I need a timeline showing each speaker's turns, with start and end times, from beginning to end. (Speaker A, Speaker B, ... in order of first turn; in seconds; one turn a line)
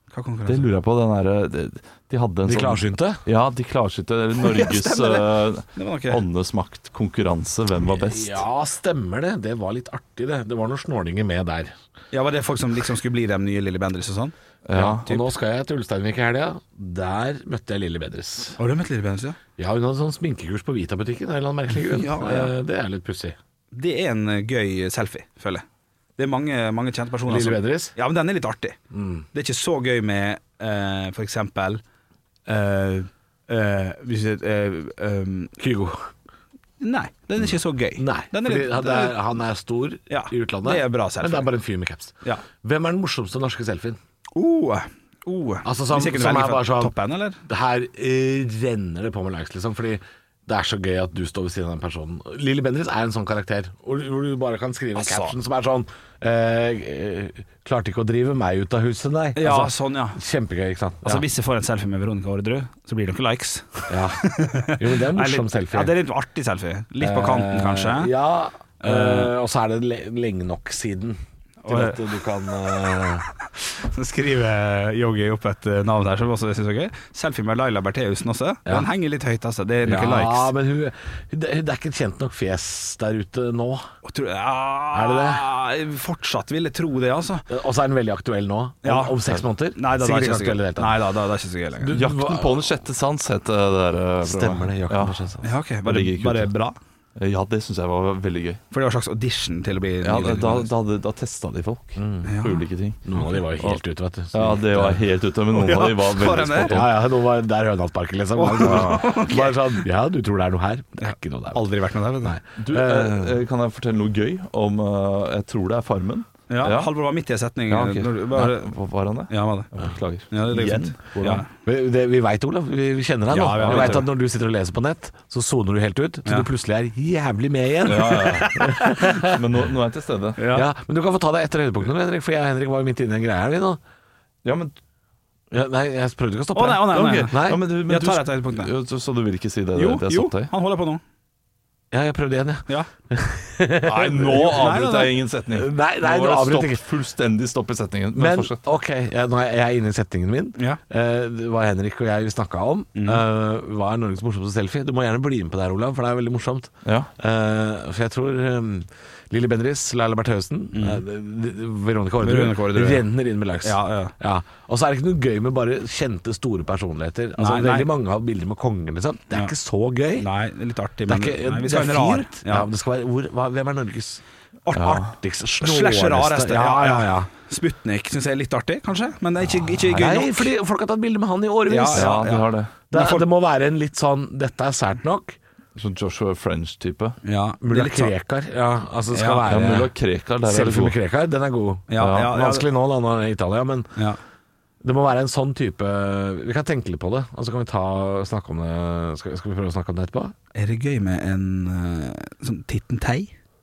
Speaker A: 0.1-0.7
Speaker B: 0.5-8.4
Speaker C: 2.4-3.2
Speaker A: 4.4-6.2
Speaker C: 7.8-11.7
Speaker A: 12.1-15.2
Speaker B: 14.7-15.1
Speaker C: 14.7-18.6
Speaker A: 18.6-19.4
Speaker C: 19.6-23.4
Speaker A: 21.9-22.5
Speaker A: 23.7-25.6
Speaker A: 26.2-28.8
Speaker C: 27.3-27.9
Speaker C: 28.9-29.2
Speaker A: 29.3-31.8
Speaker A: 32.5-35.5
Speaker C: 35.6-36.1
Speaker A: 36.8-39.2
Speaker C: 37.4-44.0
Speaker A: 40.1-41.5
Speaker A: 44.3-47.4
Speaker C: 45.6-46.9
Speaker C: 47.4-61.2
Speaker A: 54.9-55.3
Speaker A: 59.4-60.2
Speaker A: 61.0-68.1
Speaker C: 63.9-65.9
Speaker C: 67.0-73.3
Speaker A: 68.8-69.3
Speaker A: 71.6-72.0
Speaker A: 73.6-80.5
Speaker C: 79.8-83.8
Speaker A: 84.0-87.4
Speaker C: 84.9-85.5
Speaker C: 87.5-91.0
Speaker A: 88.8-89.2
Speaker A: 89.8-92.0
Speaker C: 91.8-92.7
Speaker B: 91.9-95.2
Speaker C: 94.2-95.5
Speaker A: 95.4-96.8
Speaker B: 95.8-96.5
Speaker B: 97.2-98.6
Speaker A: 98.7-100.7
Speaker B: 100.0-103.8
Speaker C: 102.0-102.4
Speaker A: 102.2-102.6
Speaker C: 103.0-105.0
Speaker B: 104.3-107.0
Speaker A: 105.5-106.8
Speaker C: 106.6-111.6
Speaker A: 108.3-109.8
Speaker B: 108.6-109.0
Speaker A: 111.0-112.3
Speaker C: 112.2-113.4
Speaker B: 112.6-116.9
Speaker A: 116.5-118.7
Speaker B: 117.7-121.4
Speaker A: 119.3-119.7
Speaker A: 120.3-121.5
Speaker C: 121.5-129.4
Speaker A: 123.3-124.1
Speaker B: 123.5-124.0
Speaker B: 127.9-128.6
Speaker A: 127.9-129.3
Speaker B: 129.2-130.4
Speaker A: 130.4-130.7
Speaker C: 130.5-133.8
Speaker B: 134.4-134.8
Speaker C: 135.5-137.6
Speaker A: 136.5-138.7
Speaker B: 136.9-140.5
Speaker A: 139.7-141.0
Speaker C: 141.9-144.6
Speaker B: 143.8-148.6
Speaker A: 144.2-145.1
Speaker C: 145.5-146.8
Speaker C: 148.2-170.3
Speaker A: 152.9-153.2
Speaker B: 156.8-157.1
Speaker A: 160.7-161.0
Speaker A: 162.2-163.1
Speaker A: 163.6-164.1
Speaker A: 167.4-167.9
Speaker A: 170.2-172.7
Speaker C: 171.1-174.2
Speaker A: 174.6-180.5
Speaker B: 174.7-175.1
Speaker C: 174.9-177.3
Speaker B: 179.7-180.1
Speaker C: 179.9-185.3
Speaker A: 181.7-183.2
Speaker B: 181.9-182.7
Speaker B: 185.8-187.2
Speaker A: 187.2-188.1
Speaker C: 187.6-189.9
Speaker A: 189.1-189.4
Speaker B: 189.4-190.9
Speaker C: 190.4-194.0
Speaker A: 191.9-192.7
Speaker B: 192.0-192.3
Speaker C: 194.8-200.3
Speaker A: 200.5-203.3